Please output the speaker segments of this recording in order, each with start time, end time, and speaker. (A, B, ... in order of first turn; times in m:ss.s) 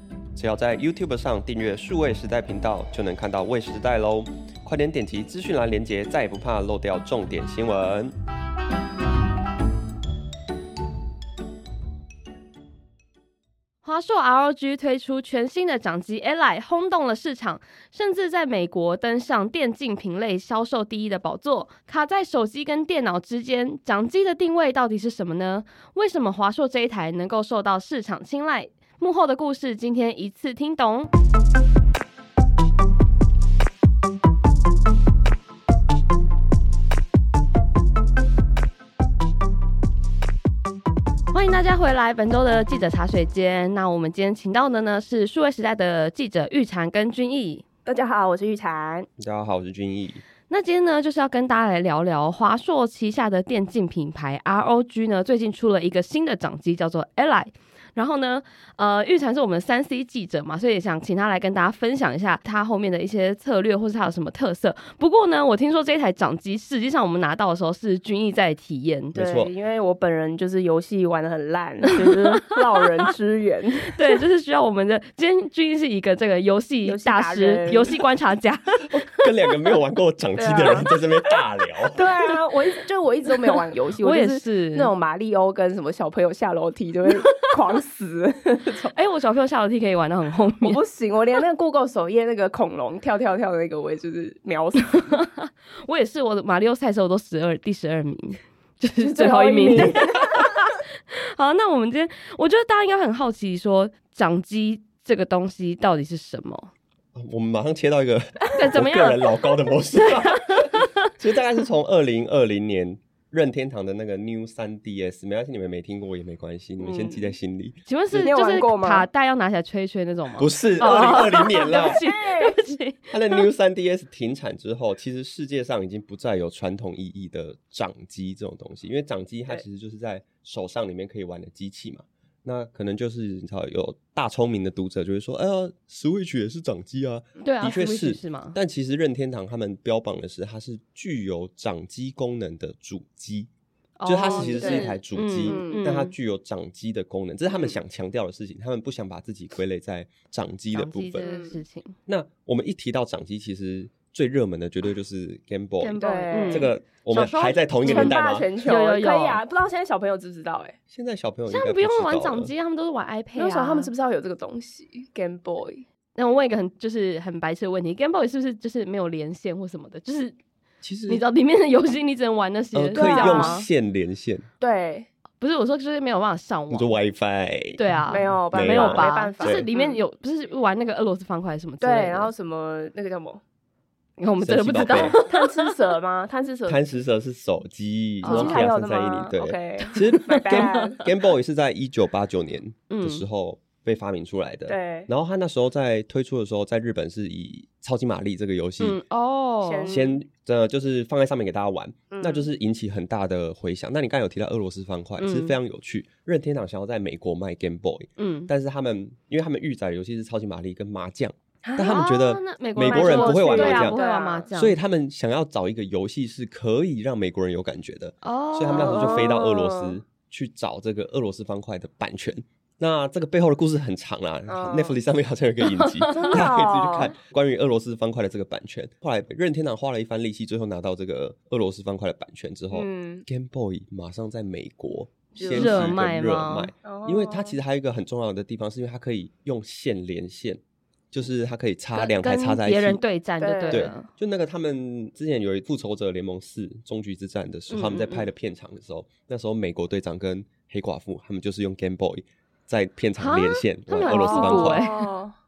0:00.4-0:08.1 A
0:13.8-0:31.1 B
0:41.3-0:47.6 B
0:47.9-0:49.1 C
0:49.2-0:50.2 A
0:50.5-1:09.2 B
1:09.1-1:09.5 A
1:09.2-1:14.2 C
1:12.1-1:12.4 B
1:13.8-1:19.3 B
1:16.8-1:18.0 C
1:19.2-1:22.0 A
1:20.4-1:20.9 C
1:21.9-1:28.9 C
1:24.0-1:24.9 B
1:28.9-1:30.8 B
1:30.6-1:35.1 C
1:34.8-1:46.7 B
1:39.0-1:40.5 C
1:47.1-1:58.3 A
1:48.5-1:51.1 B
1:56.8-1:57.3 C
1:57.9-2:03.4 B
1:58.1-1:59.1 C
2:00.4-2:02.0 A
2:01.6-2:02.7 C
2:03.1-2:23.5 A
2:17.4-2:18.6 B
2:24.0-2:26.1 B
2:24.1-2:31.3 A
2:24.2-2:25.9 C
2:30.7-2:32.0 B
2:31.2-2:31.6 C
2:32.1-2:38.5 A
2:35.8-2:39.4 B
2:36.0-2:36.7 C
2:37.8-2:40.8 C
2:40.9-2:42.5 A
2:41.5-2:43.9 B
2:43.4-2:45.8 C
2:46.2-2:50.3 B
2:50.8-2:51.2 A
2:51.1-2:53.7 B
2:52.7-2:54.5 A
2:53.0-2:53.6 C
2:54.6-2:55.1 C
2:55.4-2:56.9 B
2:56.7-2:59.7 A
2:57.8-3:02.3 B
2:58.1-3:00.0 C
3:01.8-3:03.4 C
3:04.2-3:05.7 B
3:04.4-3:05.2 A
3:05.0-3:06.8 C
3:06.7-3:19.0 A
3:08.2-3:08.7 B
3:08.2-3:11.1 C
3:09.9-3:11.1 B
3:12.9-3:13.2 B
3:14.7-3:15.1 C
3:18.8-3:20.0 B
3:19.6-3:20.2 C
3:19.9-3:34.0 A
3:22.1-3:22.5 C
3:25.2-3:25.6 B
3:28.2-3:28.5 B
3:31.6-3:32.1 C
3:31.8-3:34.8 B
3:32.8-3:34.5 C
3:34.5-4:00.6 A
3:38.2-3:39.3 B
3:38.7-3:40.0 C
3:44.5-3:45.0 C
3:45.7-3:46.4 B
3:46.1-3:47.1 C
3:52.7-3:53.2 C
3:55.3-3:56.0 C
3:55.4-3:56.7 B
3:56.8-3:57.6 C
4:01.1-4:03.0 A
4:02.0-4:04.1 B
4:03.4-4:03.9 C
4:03.7-4:14.8 A
4:07.7-4:08.3 B
4:13.2-4:15.1 B
4:14.0-4:15.3 C